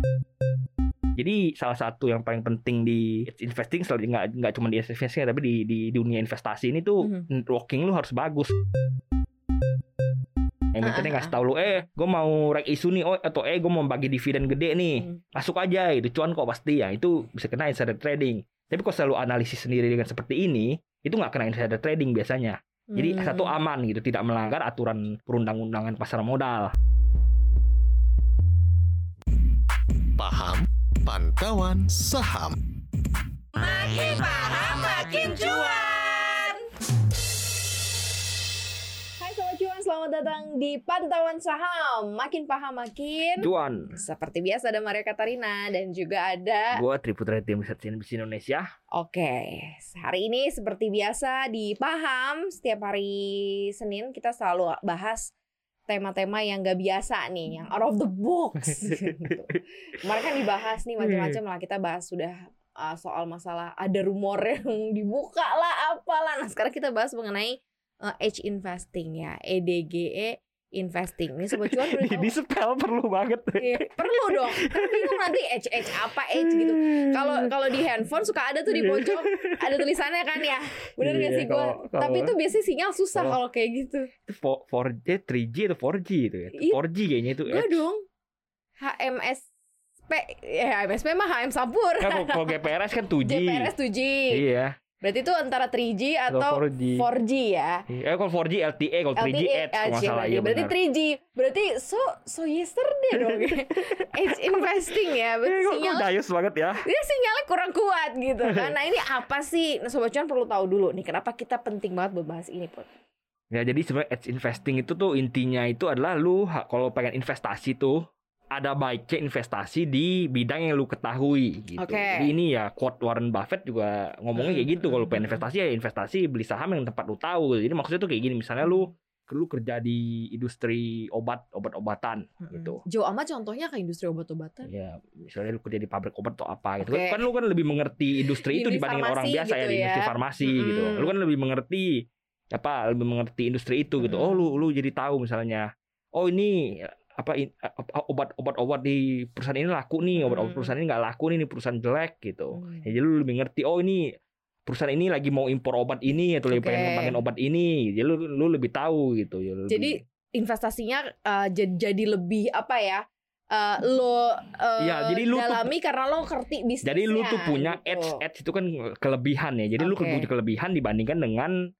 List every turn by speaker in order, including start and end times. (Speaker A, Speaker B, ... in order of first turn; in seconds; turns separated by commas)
Speaker A: 1.1-8.5, Speaker A: 10.7-26.7, Speaker B: 10.8-11.3, Speaker B: 22.9-23.5, Speaker C: 30.2-32.6, Speaker B: 33.5-36.6, Speaker B: 39.2-46.8, Speaker A: 43.4-43.9, Speaker A: 46.7-48.6, Speaker B: 48.9-55.3, Speaker B: 55.9-72.3, Speaker A: 61.0-61.4, Speaker A: 71.6-75.2, Speaker B: 73.6-84.1, Speaker A: 76.4-77.8, Speaker A: 78.7-79.8, Speaker A: 81.0-82.3, Speaker A: 84.3-87.8, Speaker B: 87.5-88.0, Speaker B: 88.8-89.4, Speaker B: 90.1-92.6, Speaker A: 92.0-93.7, Speaker B: 93.2-94.4, Speaker A: 94.3-94.7, Speaker B: 95.0-97.8, Speaker A: 96.3-97.0, Speaker A: 97.9-100.7, Speaker B: 99.2-106.1, Speaker A: 103.2-104.3, Speaker A: 105.4-106.8, Speaker B: 106.8-112.9, Speaker A: 113.5-118.0, Speaker A: 118.5-132.8, Speaker B: 121.8-122.3, Speaker B: 124.3-125.4, Speaker B: 128.6-128.9, Speaker B: 132.5-134.7, Speaker A: 134.7-141.9, Speaker B: 136.8-137.3, Speaker B: 138.3-141.1, Speaker A: 142.5-154.0, Speaker B: 144.0-144.5, Speaker B: 150.2-150.7, Speaker B: 152.5-152.9, Speaker A: 154.7-160.0, Speaker B: 156.5-157.2, Speaker B: 159.7-168.2, Speaker A: 164.8-165.7, Speaker A: 166.8-171.5, Speaker B: 169.8-170.3